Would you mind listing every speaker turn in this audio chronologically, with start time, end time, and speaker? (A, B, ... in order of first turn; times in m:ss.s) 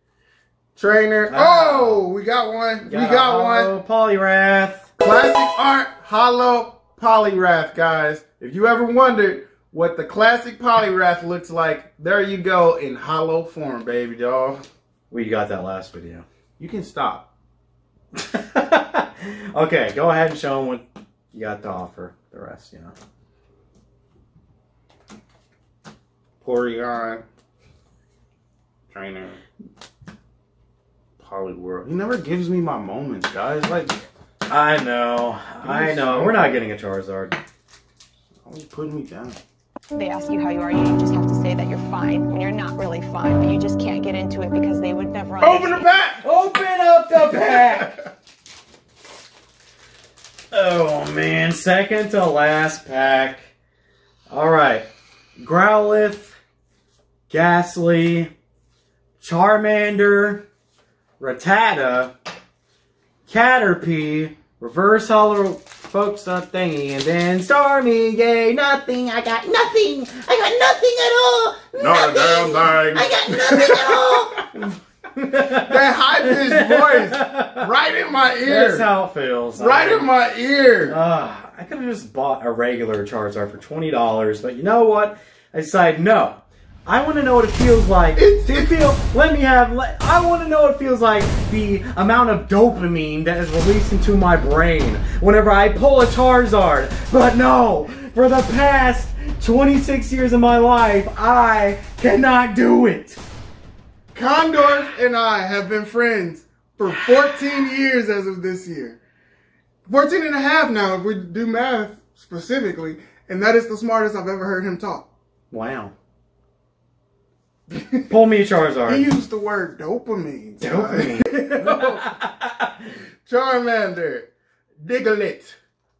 0:00.8-0:03.7 A
0:01.3-0:02.0 B
0:02.8-0:04.9 B
0:05.0-0:14.6 A
0:15.1-0:16.2 B
0:16.6-0:17.3 A
0:18.1-0:22.9 B
0:26.4-0:27.2 A
0:28.9-0:29.4 A
0:31.2-0:34.0 A
0:34.5-0:37.4 B
0:35.6-0:36.5 A
0:38.4-0:39.4 A
0:39.9-0:45.9 C
0:45.4-0:46.2 A
0:46.2-0:47.9 B
0:47.3-0:48.0 A
0:50.5-0:53.5 B
0:54.3-0:56.4 B
0:57.3-0:58.3 B
0:59.2-1:00.4 B
1:01.2-1:02.1 B
1:03.3-1:17.7 B
1:11.8-1:14.6 A
1:15.3-1:18.9 A
1:18.4-1:20.1 B
1:19.6-1:21.0 A
1:20.9-1:43.2 B
1:28.2-1:28.8 A
1:44.1-1:49.0 A
1:49.9-1:55.0 A
1:55.5-1:55.9 B
1:57.7-1:58.1 A
1:58.1-1:59.1 B
1:58.9-2:02.1 A
2:00.6-2:02.9 B
2:03.2-2:04.3 A
2:04.8-2:05.6 A